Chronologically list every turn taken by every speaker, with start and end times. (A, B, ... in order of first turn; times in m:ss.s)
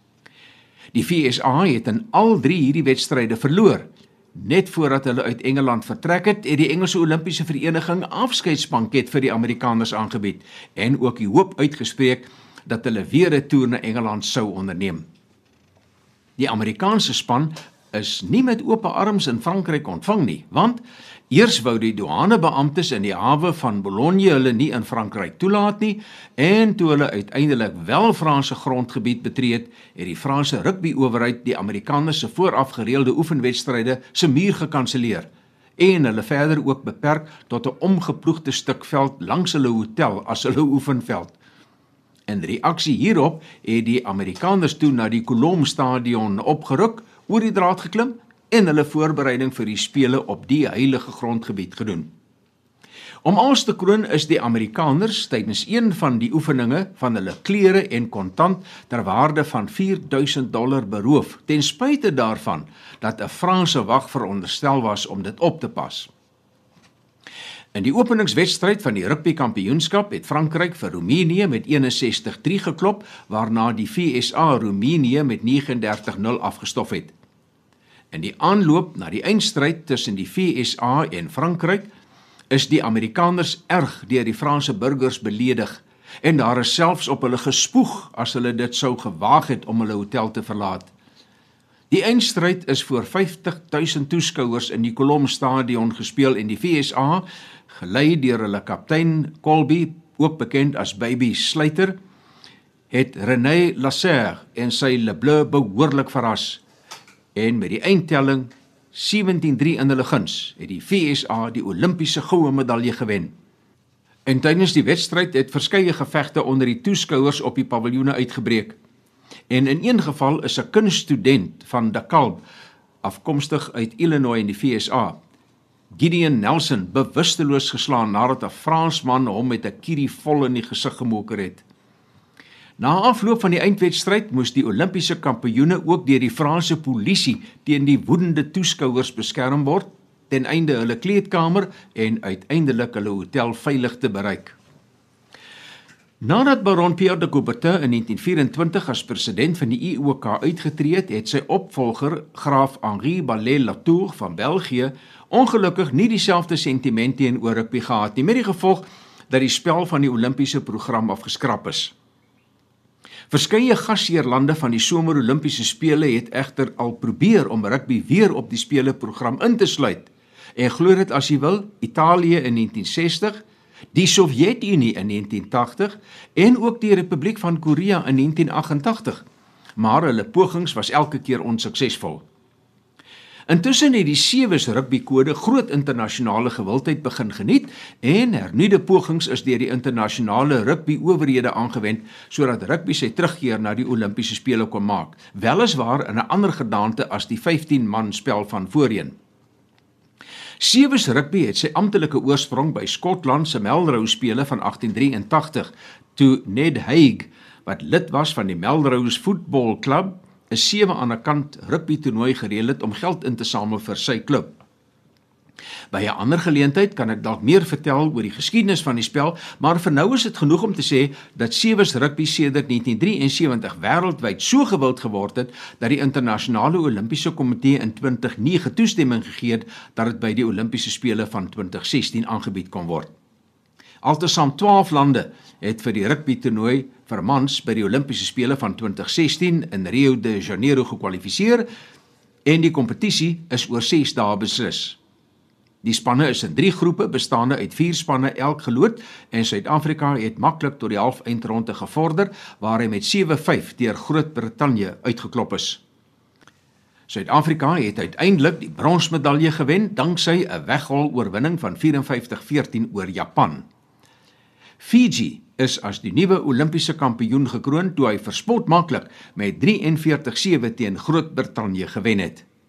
0:00.9-0:15.0 A
0:16.4-0:35.3 A
0:35.8-0:41.4 A
0:42.3-0:52.1 A
0:53.2-1:06.1 A
1:07.7-1:17.1 A
1:18.1-1:21.9 A
1:22.5-1:30.9 A
1:31.9-1:41.9 A
1:42.9-1:46.6 A
1:47.3-1:53.3 A
1:54.2-1:58.8 A
1:59.5-2:02.4 A
2:03.0-2:05.2 A
2:05.9-2:11.6 A
2:12.8-2:24.6 A
2:26.2-2:41.9 A
2:43.3-2:53.4 A
2:53.9-2:59.2 A
2:59.8-3:02.2 A
3:03.5-3:19.1 A
3:20.6-3:34.5 A
3:35.9-3:53.1 A
3:54.0-4:01.6 A
4:02.4-4:05.0 A
4:05.8-4:15.8 A
4:17.1-4:23.6 A
4:24.8-4:32.4 A